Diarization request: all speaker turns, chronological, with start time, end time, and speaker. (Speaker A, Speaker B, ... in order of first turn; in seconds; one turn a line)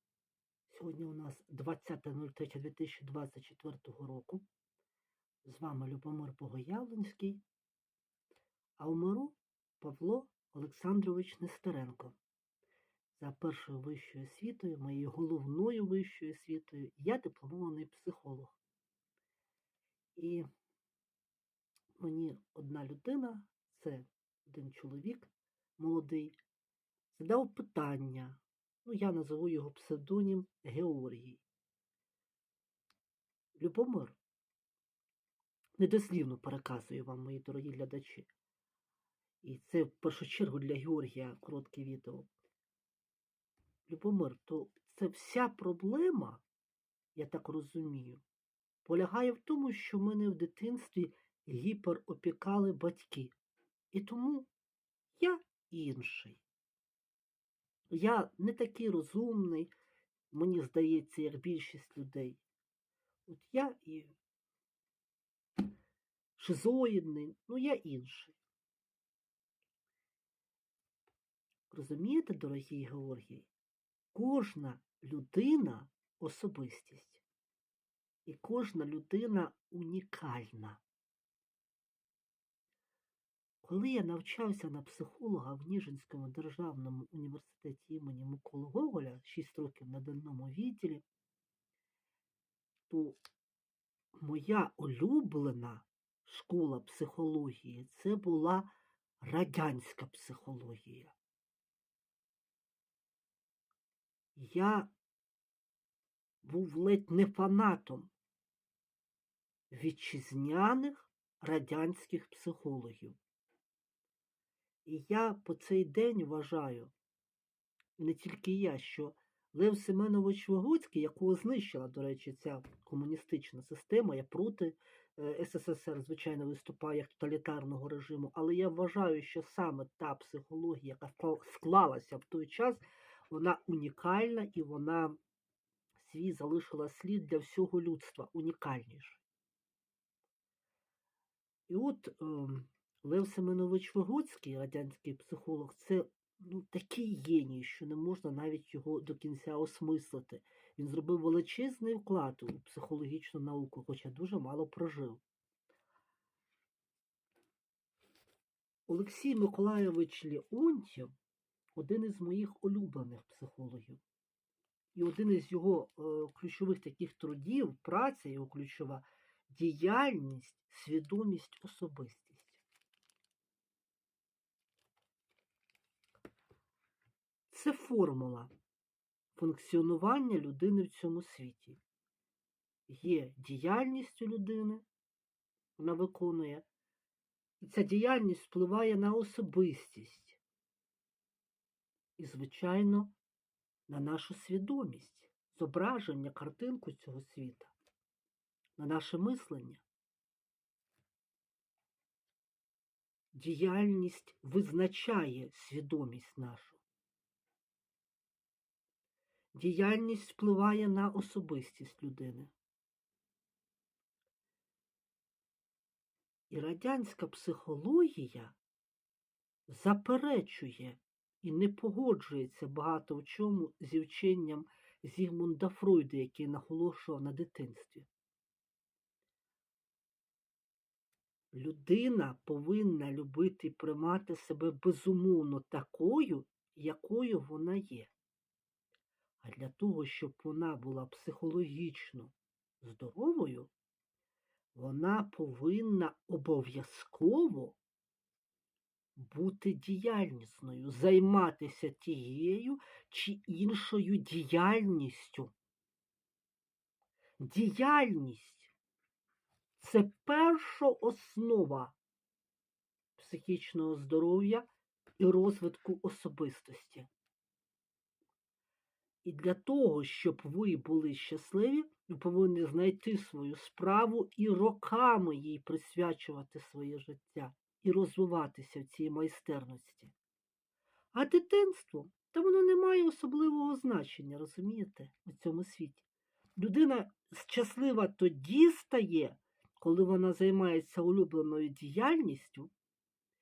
Speaker A: 0.7-4.4
Speaker A: 5.4-7.4
Speaker A: 8.8-12.2
Speaker A: 13.2-18.5
Speaker A: 20.1-20.4
Speaker A: 22.0-26.4
Speaker A: 27.1-31.4
Speaker A: 33.5-34.2
Speaker A: 35.8-38.3
Speaker A: 39.4-42.3
Speaker A: 43.9-46.4
Speaker A: 47.1-48.2
Speaker A: 48.8-53.3
Speaker A: 53.9-54.5
Speaker A: 55.2-56.4
Speaker A: 57.9-59.7
Speaker A: 60.3-62.4
Speaker A: 63.3-64.1
Speaker A: 66.4-68.4
Speaker A: 71.7-73.5
Speaker A: 74.1-77.2
Speaker A: 78.2-80.8
Speaker A: 83.6-91.0
Speaker A: 92.9-93.2
Speaker A: 94.2-101.1
Speaker A: 104.3-104.9
Speaker A: 106.4-108.1
Speaker A: 109.7-113.2
Speaker A: 114.8-116.9
Speaker A: 118.0-135.2
Speaker A: 136.0-139.2
Speaker A: 141.7-155.2
Speaker A: 158.9-161.1
Speaker A: 161.8-164.0
Speaker A: 164.9-172.6
Speaker A: 177.5-178.5
Speaker A: 179.3-181.8
Speaker A: 182.9-184.8
Speaker A: 185.8-186.6
Speaker A: 187.6-190.4
Speaker A: 192.2-193.1
Speaker A: 193.9-197.7
Speaker A: 198.8-199.8
Speaker A: 203.3-206.8
Speaker A: 209.5-212.5
Speaker A: 216.5-218.6
Speaker A: 219.7-228.1
Speaker A: 231.5-238.1
Speaker A: 239.4-243.7
Speaker A: 244.7-247.8
Speaker A: 249.2-255.5
Speaker A: 257.4-258.7
Speaker A: 259.8-261.9
Speaker A: 263.2-267.1
Speaker A: 269.2-280.1
Speaker A: 281.1-286.1
Speaker A: 286.6-292.7